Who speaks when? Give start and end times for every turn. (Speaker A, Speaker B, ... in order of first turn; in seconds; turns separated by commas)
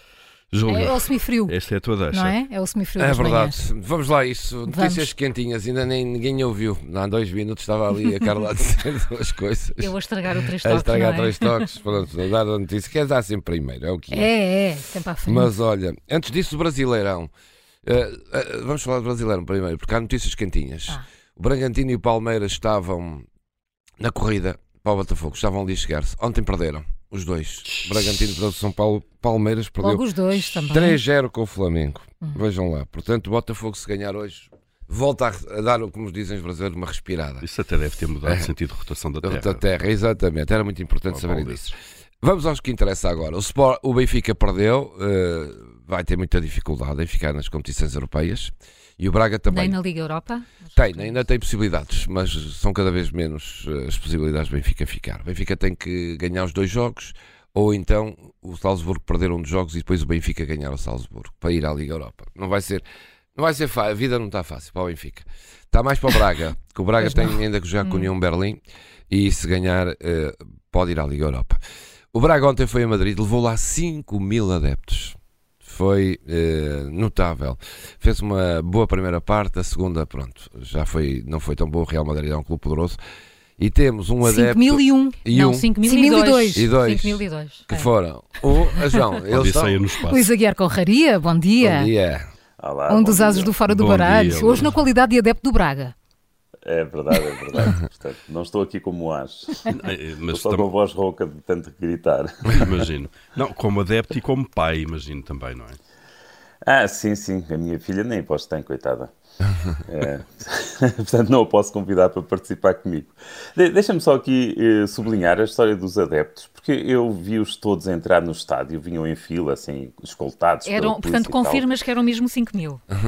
Speaker A: 0.5-2.4, Speaker B: 0.7-1.5, Speaker B: 2.1-3.6, Speaker C: 3.0-10.0, Speaker B: 4.7-5.1, Speaker D: 9.8-11.7, Speaker C: 10.5-14.3, Speaker B: 14.1-15.5, Speaker C: 15.2-17.3, Speaker C: 17.8-23.2, Speaker C: 24.0-37.5, Speaker A: 27.6-28.0, Speaker B: 29.8-31.0, Speaker A: 37.4-39.6, Speaker C: 38.2-38.5, Speaker C: 39.2-49.8, Speaker A: 41.1-41.7, Speaker D: 49.5-51.1, Speaker C: 50.7-62.8, Speaker C: 63.3-71.6, Speaker D: 67.8-68.1, Speaker C: 72.1-83.0, Speaker C: 83.6-85.7, Speaker B: 84.2-85.2, Speaker D: 85.3-87.6, Speaker B: 85.8-86.7, Speaker C: 86.5-89.8, Speaker A: 89.3-90.3, Speaker B: 90.0-91.9, Speaker C: 91.6-92.3, Speaker E: 92.6-93.6, Speaker B: 92.9-95.9, Speaker A: 93.7-94.7, Speaker E: 96.6-99.7, Speaker A: 99.7-100.7, Speaker E: 100.3-102.6, Speaker A: 102.5-105.8, Speaker E: 106.6-109.1, Speaker E: 109.7-121.7, Speaker D: 120.6-122.8